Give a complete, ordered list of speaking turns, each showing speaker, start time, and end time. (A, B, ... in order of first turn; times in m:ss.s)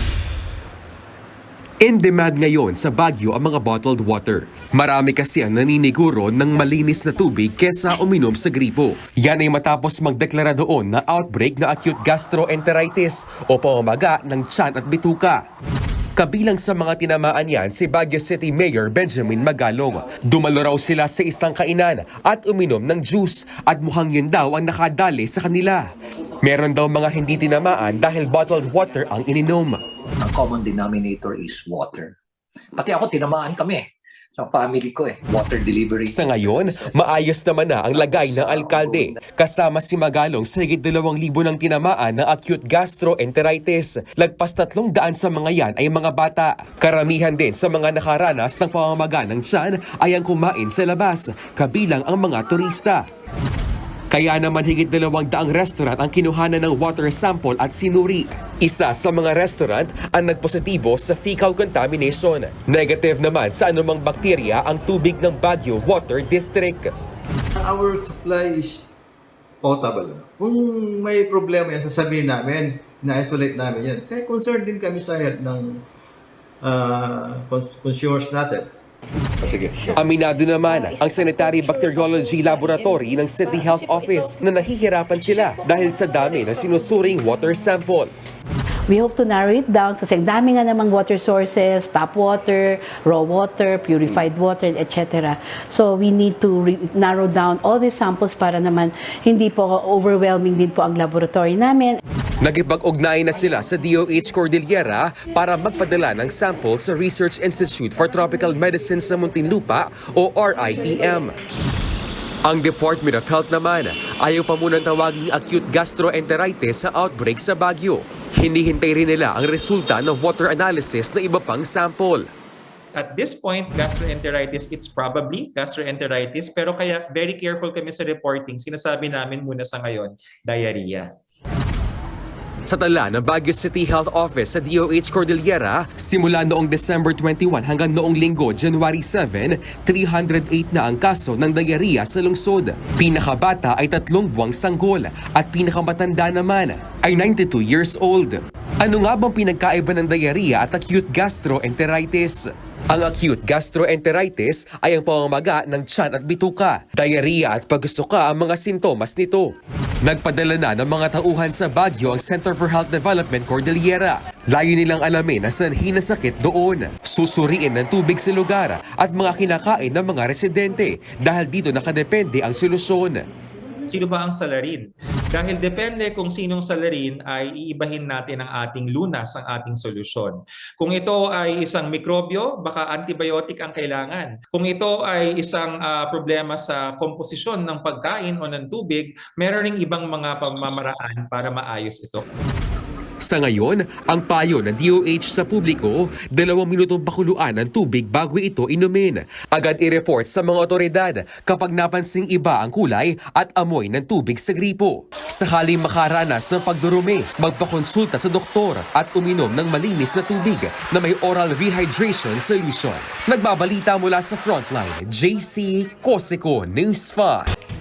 0:01.8-0:15.4 A
0:16.2-0:25.8 A
0:26.4-0:29.8 A
0:30.2-0:32.2 B
0:32.8-0:37.2 B
0:36.1-0:53.1 A
0:37.9-0:39.3 B
0:54.1-1:06.9 A
1:07.6-1:08.8 C
1:09.6-1:15.8 C
1:16.6-1:18.7 C
1:19.4-1:20.0 B
1:20.0-1:28.1 A
1:28.9-1:42.0 D
1:42.4-1:51.4 A
1:52.4-2:02.3 A
2:03.0-2:11.1 E
2:12.7-2:53.3 A
2:53.9-3:12.2 E
3:13.2-3:37.5 A